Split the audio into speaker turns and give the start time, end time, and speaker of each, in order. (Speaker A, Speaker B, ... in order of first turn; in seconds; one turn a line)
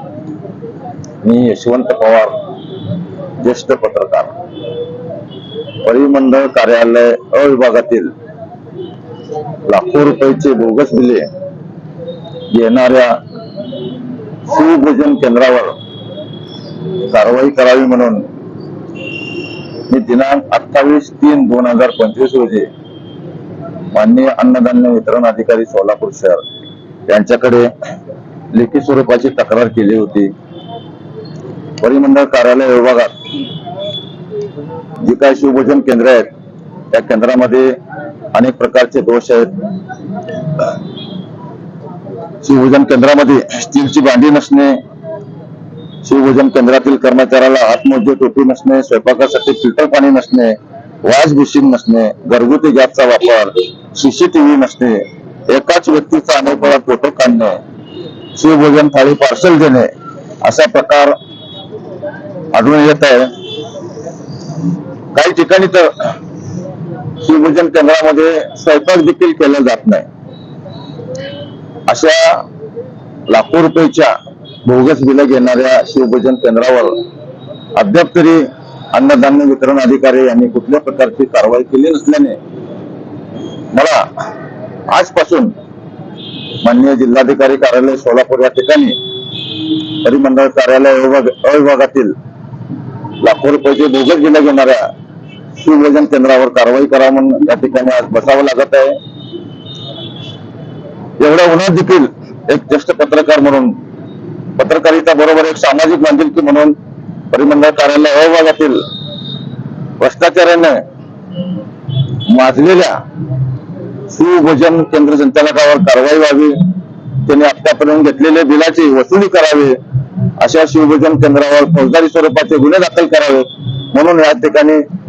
Speaker A: 1.2-2.3
Speaker A: 3.4-4.3
Speaker A: 5.8-8.1
Speaker A: 9.7-11.3
Speaker A: 12.5-13.2
Speaker A: 14.5-15.7
Speaker A: 17.1-18.2
Speaker A: 19.9-22.7
Speaker A: 23.9-26.4
Speaker A: 27.1-27.7
Speaker A: 28.5-30.3
Speaker A: 31.8-33.1
Speaker A: 35.0-36.3
Speaker A: 36.9-37.7
Speaker A: 38.3-39.7
Speaker A: 42.4-44.8
Speaker A: 46.0-57.6
Speaker A: 58.4-59.9
Speaker A: 60.4-61.1
Speaker A: 62.5-63.3
Speaker A: 65.1-66.2
Speaker A: 67.2-70.0
Speaker A: 71.9-72.4
Speaker A: 73.3-74.1
Speaker A: 74.6-77.0
Speaker A: 77.7-82.4
Speaker A: 83.7-84.0
Speaker A: 84.9-85.5
Speaker A: 86.6-89.0
Speaker A: 89.5-92.1
Speaker A: 93.2-94.8
Speaker A: 95.6-99.0
Speaker A: 101.2-103.7
Speaker A: 104.6-106.7
Speaker A: 107.3-108.8
Speaker A: 110.0-110.8
Speaker A: 112.3-113.0
Speaker A: 114.1-116.7
Speaker A: 117.2-119.8
Speaker A: 120.4-124.8